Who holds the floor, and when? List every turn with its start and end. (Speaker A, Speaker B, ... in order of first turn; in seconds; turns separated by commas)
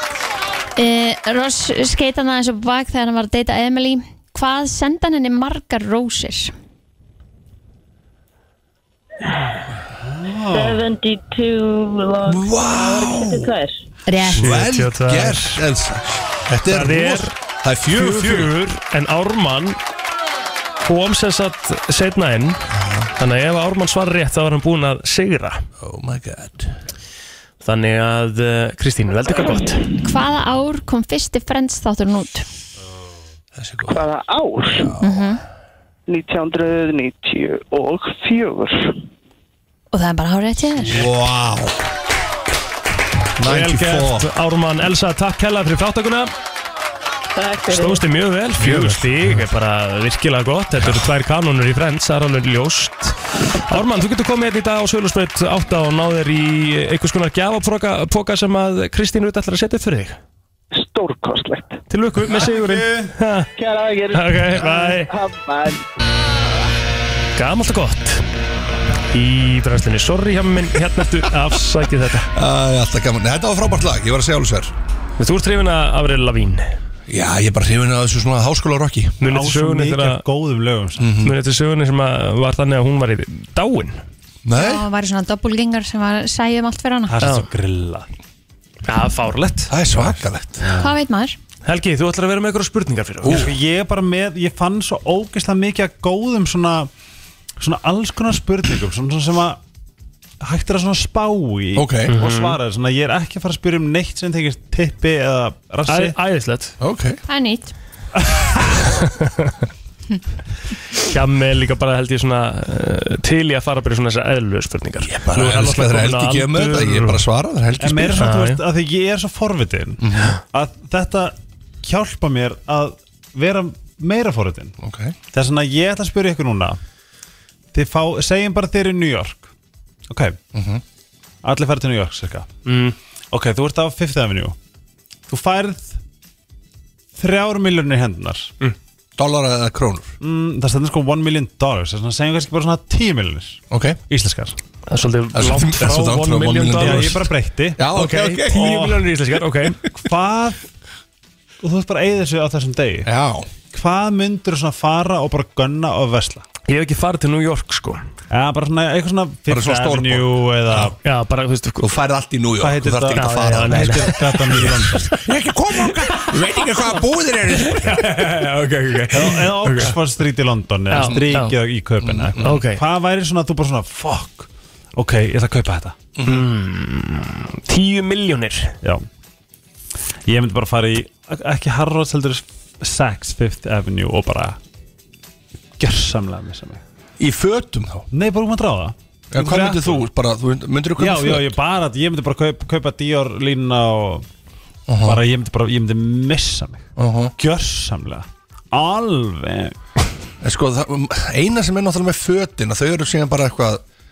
Speaker A: 0.8-6.5, Speaker B: 10.0-10.9, Speaker C: 10.5-13.8, Speaker D: 12.3-13.5, Speaker A: 14.1-14.6, Speaker D: 14.3-18.5, Speaker E: 14.4-15.6, Speaker E: 16.7-17.4, Speaker E: 17.9-19.8, Speaker E: 20.8-22.6, Speaker D: 22.7-23.1, Speaker E: 23.2-25.6, Speaker D: 25.8-26.7, Speaker E: 27.6-29.9, Speaker A: 30.0-32.5, Speaker D: 33.6-34.0, Speaker F: 33.9-34.9, Speaker D: 34.7-35.2, Speaker A: 35.0-35.4, Speaker F: 36.1-39.0, Speaker A: 39.9-41.1, Speaker D: 40.8-41.8, Speaker D: 43.4-44.3, Speaker E: 43.5-46.3, Speaker C: 47.4-48.0, Speaker E: 47.7-60.2, Speaker D: 48.6-49.4, Speaker D: 50.8-51.1, Speaker F: 60.7-61.8, Speaker E: 61.9-63.5, Speaker B: 62.3-63.1, Speaker F: 63.6-65.8, Speaker E: 64.1-65.1, Speaker E: 67.4-68.2, Speaker E: 69.1-72.3, Speaker D: 72.3-74.7, Speaker E: 75.2-76.7, Speaker D: 77.1-79.2, Speaker E: 79.2-80.2, Speaker B: 79.2-81.2, Speaker D: 81.0-81.4, Speaker E: 81.2-84.0, Speaker D: 84.5-84.9, Speaker A: 84.5-87.2, Speaker B: 87.1-88.1, Speaker E: 87.2-87.5, Speaker E: 88.8-89.7, Speaker D: 89.7-90.7, Speaker B: 90.0-91.0, Speaker A: 90.8-91.4, Speaker E: 91.7-93.5, Speaker D: 93.2-93.5, Speaker B: 93.3-96.9, Speaker B: 97.6-99.6, Speaker B: 100.4-106.2, Speaker D: 101.8-102.1, Speaker E: 102.1-102.6, Speaker E: 105.9-106.7, Speaker D: 106.8-107.2, Speaker A: 107.3-107.7, Speaker B: 108.2-108.9, Speaker E: 109.0-109.5, Speaker E: 111.0-117.2, Speaker D: 115.0-118.4, Speaker B: 117.8-124.8, Speaker E: 118.2-118.6, Speaker D: 120.0-120.4, Speaker D: 124.8-125.2, Speaker B: 125.3-126.8, Speaker B: 127.7-129.5, Speaker B: 130.1-130.4, Speaker D: 130.5-130.8, Speaker B: 131.4-132.5, Speaker E: 132.7-133.0, Speaker B: 133.3-134.6, Speaker B: 135.3-136.0, Speaker B: 137.2-138.5, Speaker D: 139.2-140.2, Speaker B: 140.2-144.6, Speaker D: 143.7-144.0, Speaker E: 144.9-147.3, Speaker D: 145.3-148.8, Speaker B: 146.7-147.9, Speaker E: 147.9-149.8, Speaker B: 148.5-149.1, Speaker B: 149.9-150.7, Speaker B: 151.6-153.1, Speaker D: 153.1-153.5, Speaker B: 153.7-156.5, Speaker E: 156.7-158.0, Speaker B: 158.3-160.9, Speaker D: 159.5-160.9, Speaker E: 161.0-161.9, Speaker D: 161.8-168.3, Speaker B: 162.6-165.2, Speaker E: 163.2-165.2, Speaker E: 167.6-170.0, Speaker B: 169.1-176.0, Speaker E: 170.9-171.6, Speaker D: 171.0-171.4, Speaker D: 172.0-172.6, Speaker E: 172.4-172.8, Speaker D: 176.2-176.5, Speaker E: 176.2-178.7, Speaker B: 180.3-184.6, Speaker B: 185.8-186.8, Speaker D: 187.2-188.1, Speaker B: 188.1-190.1, Speaker D: 189.3-191.6, Speaker B: 191.0-194.3, Speaker D: 194.9-195.2, Speaker B: 195.0-199.8, Speaker D: 197.0-197.3, Speaker D: 200.4-203.8